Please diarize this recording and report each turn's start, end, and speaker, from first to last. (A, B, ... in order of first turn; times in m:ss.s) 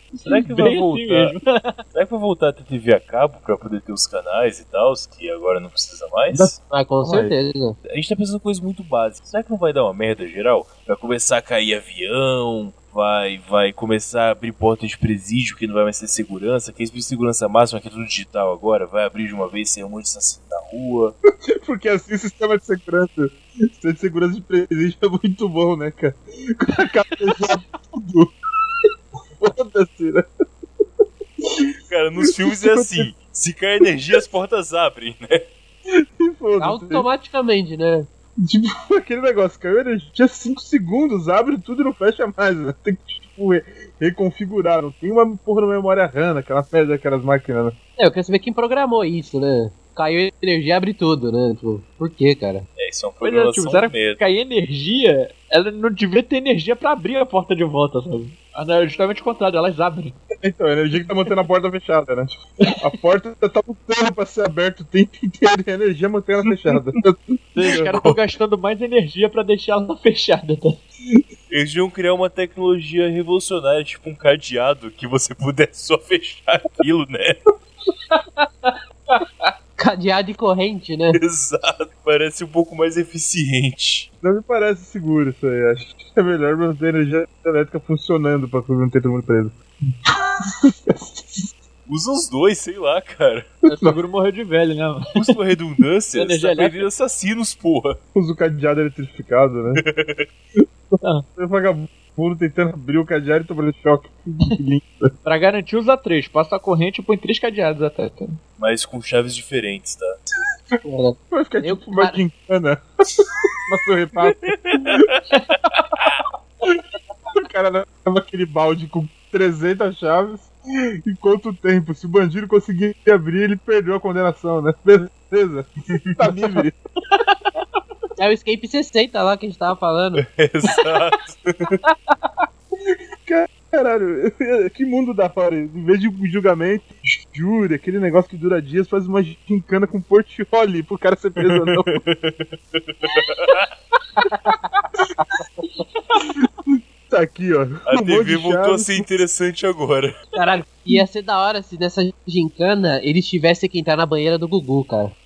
0:00.2-0:01.8 A
0:00.3-0:01.3 B
0:01.9-0:06.6 B
0:06.3-0:07.3 C
0:06.7-0:07.8 D
0:07.9-0:21.2 B
0:21.4-0:28.3 C
0:29.4-0:30.2 C
0:31.9-0:35.4 B
0:32.3-0:33.1 C
0:35.9-0:37.1 C
0:36.6-0:38.1 D
0:38.4-0:47.8 C
0:48.0-0:52.6 D
0:52.8-0:54.2 B
0:53.2-1:00.2 A
1:00.4-1:07.9 C
1:07.5-1:10.8 A
1:07.6-1:08.2 B
1:11.5-1:17.4 B
1:19.8-1:21.2 D
1:21.1-1:24.1 B
1:24.2-1:31.5 C
1:31.9-1:33.5 B
1:33.6-1:35.1 A
1:33.7-1:34.0 C
1:35.1-1:38.0 B
1:36.1-1:36.8 A
1:38.1-1:39.8 C
1:39.8-1:40.3 B
1:40.9-1:45.1 C
1:45.2-1:48.4 A
1:48.6-1:50.2 B
1:50.8-1:52.2 D
1:51.3-1:55.1 C
1:54.3-1:55.2 B
1:57.4-2:00.5 C
2:01.0-2:06.7 C
2:08.2-2:10.2 D
2:10.2-2:11.8 B
2:13.2-2:22.0 C
2:21.4-2:23.7 B
2:24.3-2:24.6 D
2:25.8-2:26.2 A
2:26.2-2:29.1 C
2:27.9-2:30.1 B
2:30.3-2:35.1 D